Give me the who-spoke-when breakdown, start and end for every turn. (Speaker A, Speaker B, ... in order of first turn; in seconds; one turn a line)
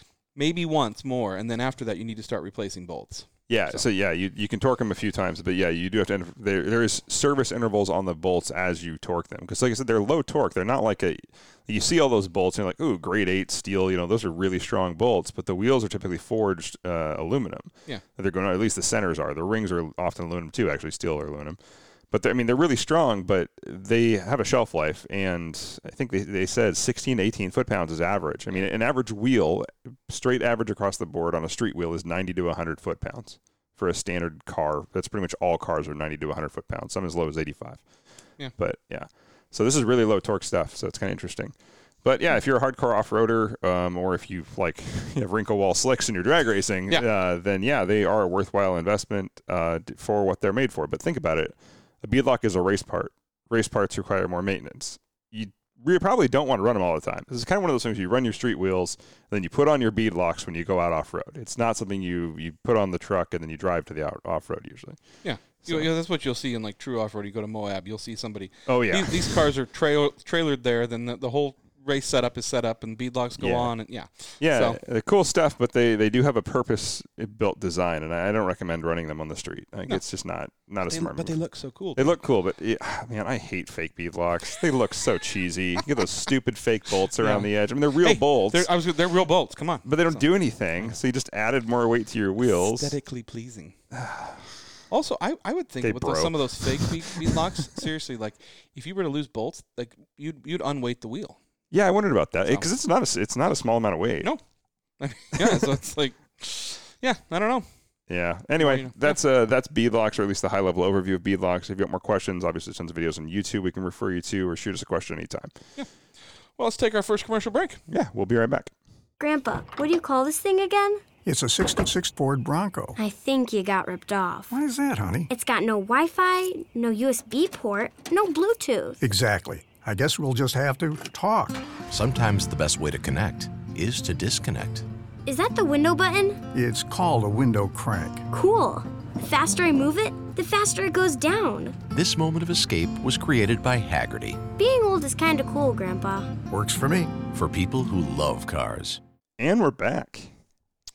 Speaker A: 0.3-3.8
Speaker B: 3.5-21.6
Speaker B: 22.1-37.8
Speaker B: 38.6-65.0
Speaker A: 65.2-74.8
Speaker B: 68.7-69.4
Speaker B: 73.4-73.7
Speaker B: 74.4-81.3
Speaker A: 80.9-82.2
Speaker B: 82.0-88.7
Speaker A: 87.2-90.3
Speaker B: 89.8-92.9
Speaker A: 92.4-93.8
Speaker B: 93.9-94.4
Speaker A: 94.9-101.4
Speaker B: 95.8-97.8
Speaker B: 101.7-104.3
Speaker A: 105.0-107.7
Speaker B: 105.4-105.7
Speaker B: 108.1-115.5
Speaker A: 108.6-109.1
Speaker A: 116.6-117.8
Speaker B: 117.9-118.7
Speaker C: 119.2-121.0
Speaker D: 121.2-123.0
Speaker C: 123.0-124.5
Speaker D: 124.5-125.3
Speaker C: 125.3-129.0
Speaker D: 129.0-131.7
Speaker E: 131.8-134.8
Speaker C: 135.2-136.4
Speaker D: 136.5-138.2
Speaker C: 138.3-141.8
Speaker E: 141.9-144.4
Speaker C: 144.6-146.3
Speaker D: 146.5-147.1
Speaker E: 147.1-149.0
Speaker B: 149.4-150.3